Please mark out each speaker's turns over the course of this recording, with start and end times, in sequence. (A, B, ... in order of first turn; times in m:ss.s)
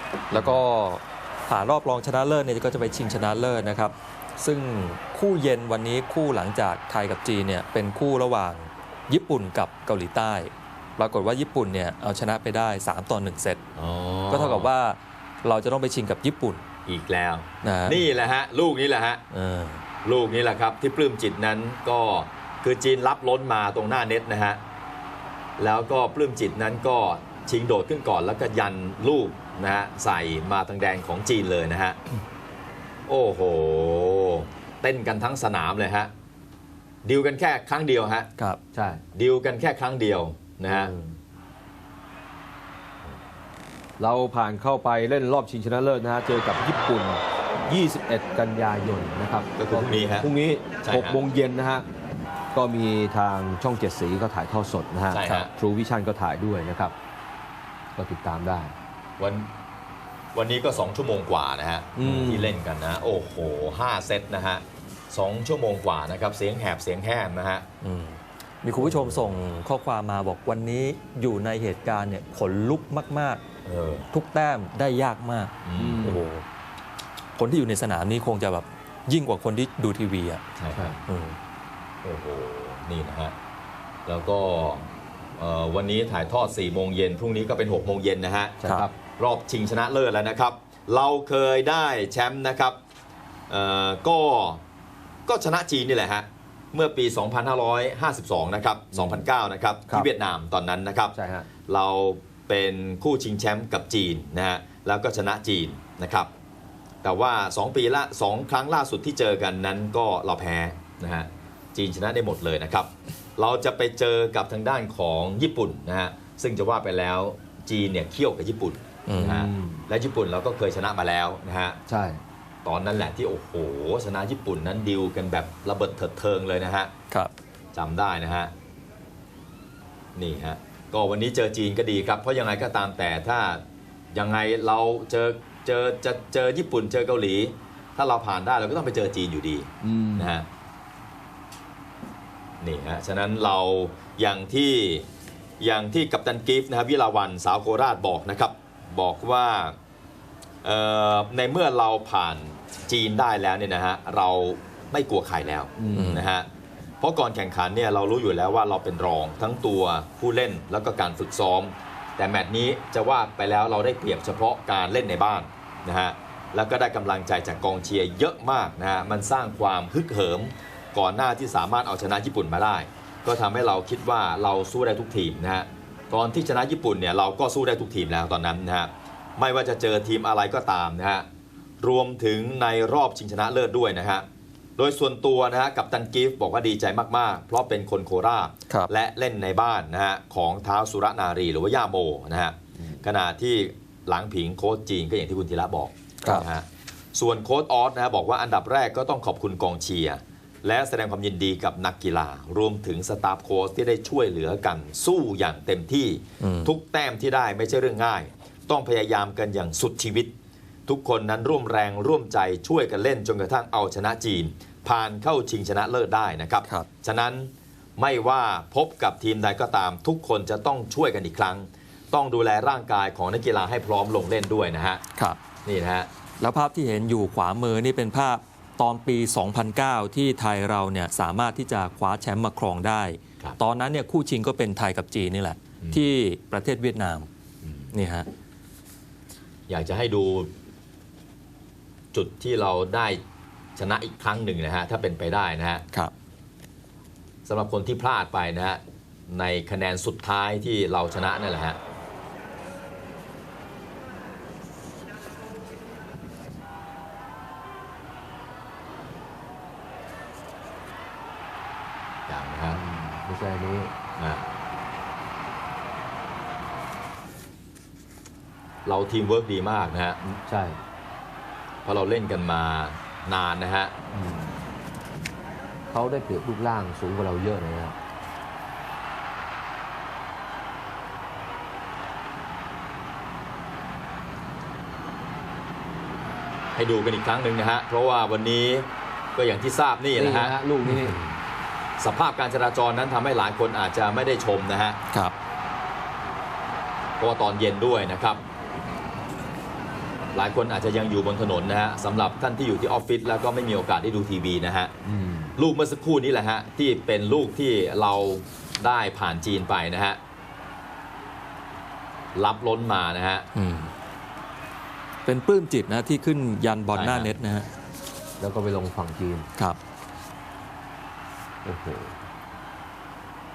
0:00.3-0:13.6 A
0:13.7-0:14.7 B
0:14.3-0:16.6 A
0:16.8-0:19.2 B
0:17.6-0:18.0 A
0:19.3-0:19.8 A
0:20.0-0:24.6 B
0:25.6-0:32.0 B
0:33.1-0:36.1 B
0:37.0-0:38.3 B
0:38.7-0:39.0 C
0:39.1-0:40.9 B
0:40.7-0:41.0 C
0:44.0-0:51.8 C
0:49.6-0:50.3 B
0:50.8-0:51.2 B
0:52.5-0:56.9 C
0:55.1-0:55.5 B
0:58.0-0:58.7 C
0:59.2-0:59.5 B
1:00.3-1:07.6 B
1:02.0-1:02.6 C
1:07.8-1:13.4 A
1:08.8-1:09.2 B
1:13.6-1:14.1 B
1:14.1-1:16.4 A
1:15.6-1:16.1 B
1:15.8-1:16.2 C
1:17.4-1:20.4 A
1:20.6-1:21.0 B
1:20.7-1:21.0 C
1:21.0-1:21.4 A
1:22.0-1:23.3 B
1:24.0-1:28.6 B
1:28.6-1:29.0 C
1:29.2-1:32.8 B
1:33.5-1:34.6 B
1:35.3-1:41.1 B
1:38.9-1:39.2 C
1:41.1-1:41.5 C
1:41.7-1:46.3 B
1:47.0-2:01.8 B
1:59.1-1:59.4 A
1:59.1-1:59.8 C
2:01.9-2:02.2 C
2:02.6-2:06.9 B
2:07.7-2:08.5 B
2:10.2-2:20.4 B
2:19.8-2:20.4 C
2:22.6-2:25.1 B
2:25.6-2:29.7 B
2:30.6-2:36.5 B
2:35.8-2:36.2 C
2:36.0-2:36.2 A
2:37.0-3:01.2 B
3:01.8-3:04.2 B
3:04.8-3:30.3 B
3:12.8-3:13.0 C
3:26.4-3:26.7 A
3:30.9-3:45.0 B
3:45.6-3:46.1 B
3:46.4-3:57.3 A
3:57.6-3:57.9 B
3:57.9-3:58.3 A
3:59.7-4:00.5 B
4:02.1-4:03.2 B
4:03.8-4:05.8 B
4:07.4-4:11.8 B
4:22.3-4:22.8 B
4:22.7-4:23.9 C
4:24.2-4:24.5 B
4:28.8-4:30.4 B
4:30.5-4:30.8 C
4:31.8-4:33.9 B
4:34.1-4:34.5 C
4:35.9-4:38.0 C
4:46.7-4:50.6 B
4:50.1-4:51.2 C
4:50.8-4:51.3 A
4:52.0-4:55.0 B
4:57.2-4:58.4 B
5:00.3-5:04.9 B
5:05.0-5:05.6 C
5:05.6-5:10.2 B
5:12.3-5:13.5 B
5:13.5-5:13.9 A
5:15.2-5:17.7 A
5:16.9-5:17.4 B
5:18.4-5:19.5 C
5:21.6-5:22.2 C